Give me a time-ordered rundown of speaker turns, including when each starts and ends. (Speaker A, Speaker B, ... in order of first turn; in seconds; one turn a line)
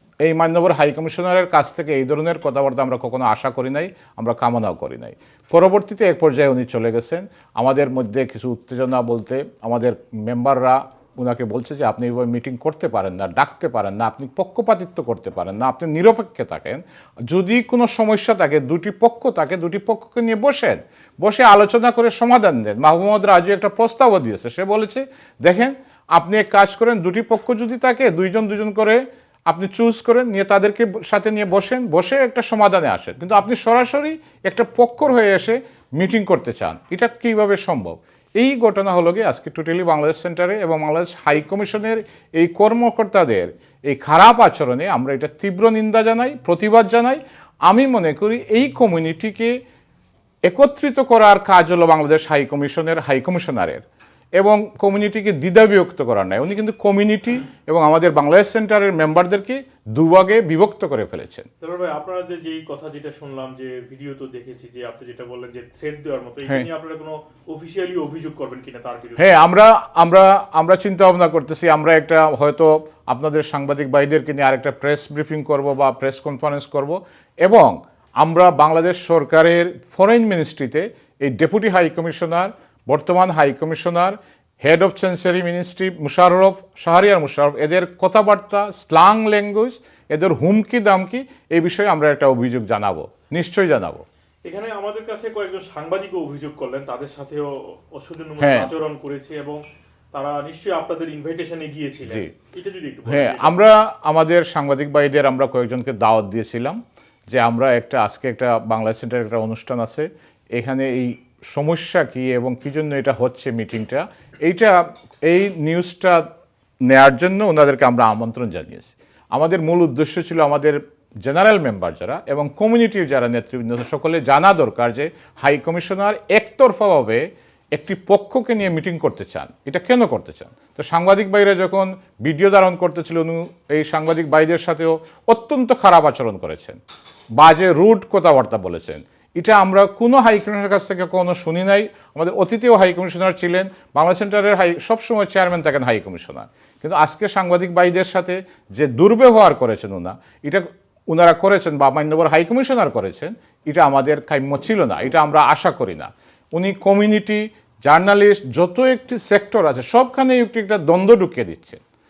Speaker A: 0.2-49.5
Speaker A: 50.5-53.8
Speaker A: 54.4-61.5
Speaker B: 61.6-69.4
Speaker A: 69.2-94.0
Speaker B: 94.5-99.6
Speaker A: 98.4-98.7
Speaker B: 100.1-103.6
Speaker A: 103.1-106.8
Speaker A: 107.3-116.3
Speaker A: 116.8-136.8
Speaker A: 137.3-161.8